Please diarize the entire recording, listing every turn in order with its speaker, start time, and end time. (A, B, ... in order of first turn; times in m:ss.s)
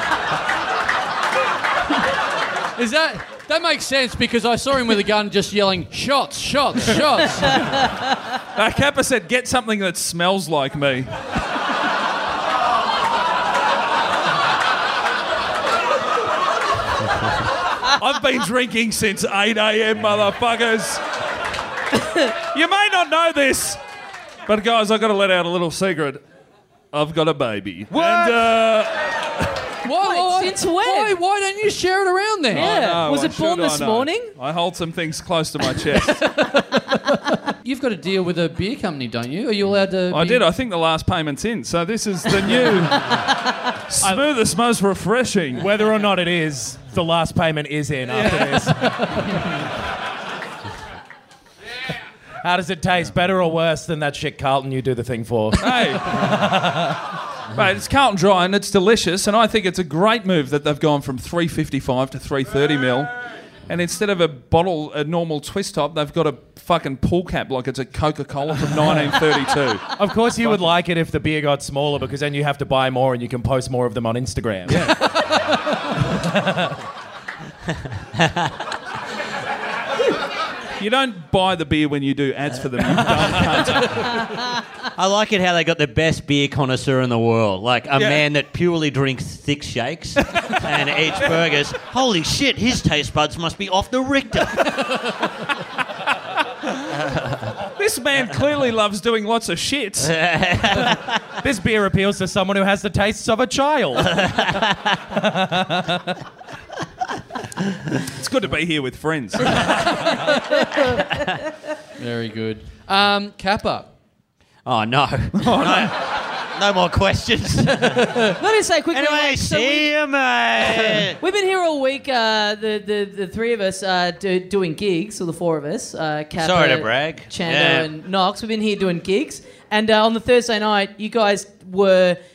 0:02.8-0:07.7 A
0:08.6-0:11.1 B
0:17.9-0:21.0 B
0:22.3-0:23.8 B
0:24.5-0:26.2 B
0:26.9-0:29.6 B
0:27.9-0:28.6 C
0:29.8-0:32.8 A
0:30.0-0:31.2 D
0:32.5-0:36.3 B
0:32.5-0:34.3 D
0:36.0-0:40.5 A
0:40.1-0:45.7 B
0:45.6-0:49.6 C
0:48.1-0:48.8 B
0:52.4-0:57.0 C
0:55.6-0:56.4 B
0:57.5-1:03.1 B
1:03.7-1:09.8 B
1:10.0-1:15.0 C
1:14.7-1:15.0 B
1:16.0-1:16.8 C
1:18.2-1:18.5 E
1:20.8-1:24.3 B
1:25.0-1:35.2 E
1:28.0-1:28.2 B
1:37.0-1:37.5 E
1:37.8-1:40.2 B
1:40.0-1:41.3 E
1:41.4-1:46.2 C
1:44.1-1:44.9 E
1:48.0-1:50.3 B
1:52.0-1:53.9 A
1:54.6-1:58.3 E
1:55.4-1:55.9 B
1:58.3-1:59.9 D
1:58.9-2:01.2 E
2:01.2-2:12.2 D
2:06.4-2:07.9 E